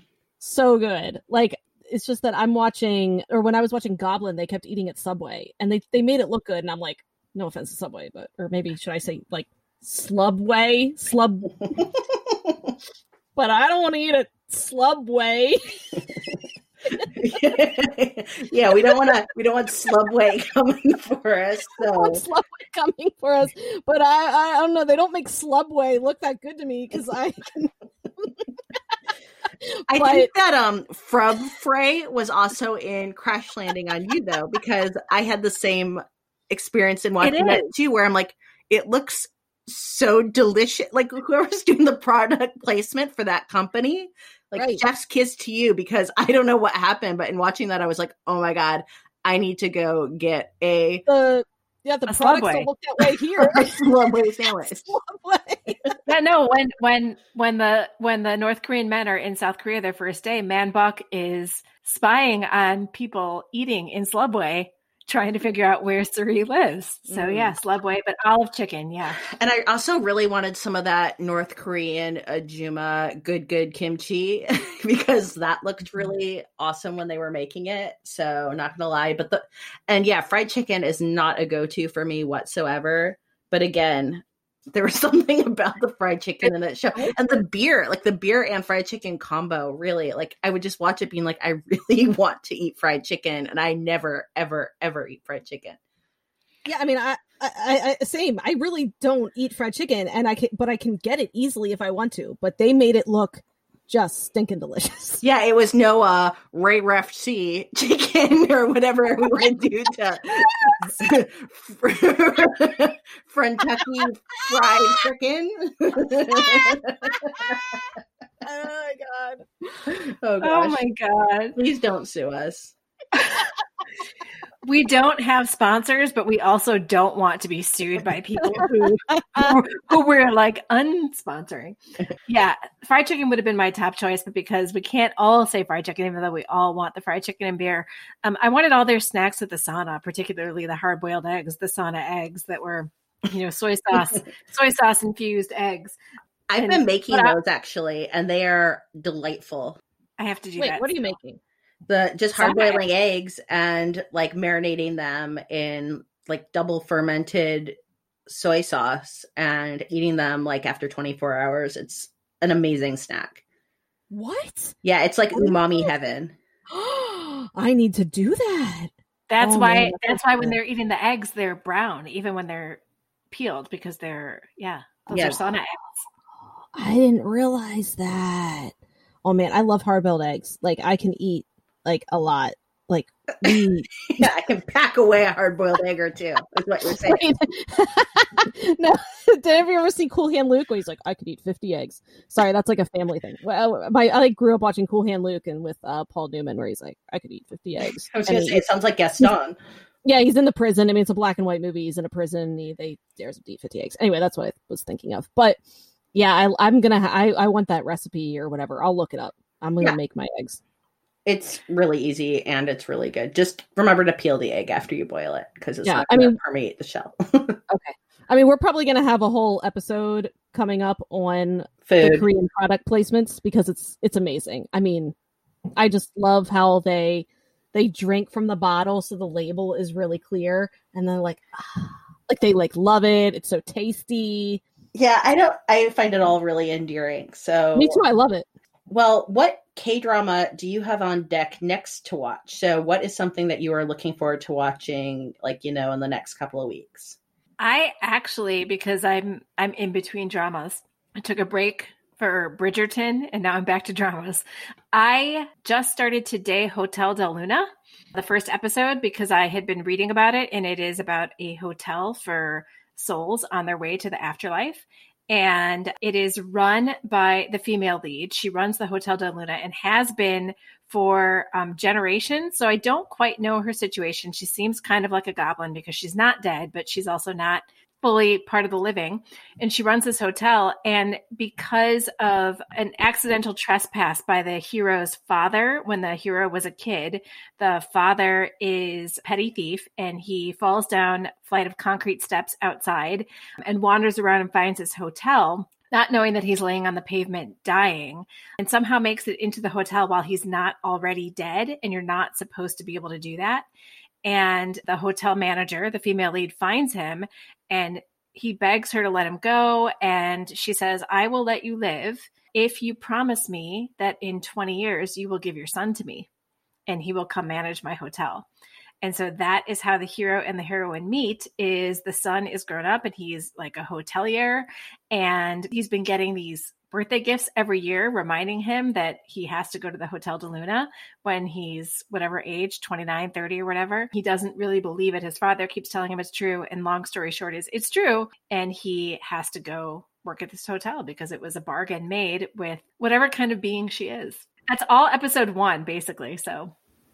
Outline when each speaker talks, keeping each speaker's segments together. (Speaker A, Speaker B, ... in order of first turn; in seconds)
Speaker A: 0.4-11.7, 13.4-16.0, 21.9-28.4, 29.9-30.3, 44.6-44.8, 51.1-56.0, 96.7-105.2, 118.4-119.5, 128.4-129.6, 150.6-151.4, 164.1-164.8, 165.3-165.9, 166.7-170.6, 176.7-184.3, 186.9-198.7, 200.0-205.6, 206.1-210.6, 215.8-216.4, 217.7-225.2, 225.8-234.6, 237.8-238.5
Speaker B: 17.1-22.2, 29.9-51.1, 53.4-54.9, 67.1-67.5, 69.3-95.8, 105.2-117.8, 120.0-120.8, 121.6-122.8, 146.5-149.8, 151.9-157.8, 158.3-163.4, 164.8-166.4, 175.1-175.4, 184.0-187.2, 198.1-199.6, 211.3-217.6, 221.9-222.3, 234.9-238.0, 238.9-247.2
Speaker C: 37.2-37.7, 52.1-52.7, 56.1-69.2, 120.4-121.6, 123.2-123.4, 124.6-146.0, 146.6-147.3, 150.2-151.2, 152.4-152.8, 169.3-172.8, 173.3-176.1, 247.6-303.7, 304.2-316.3, 316.9-318.5, 319.0-346.7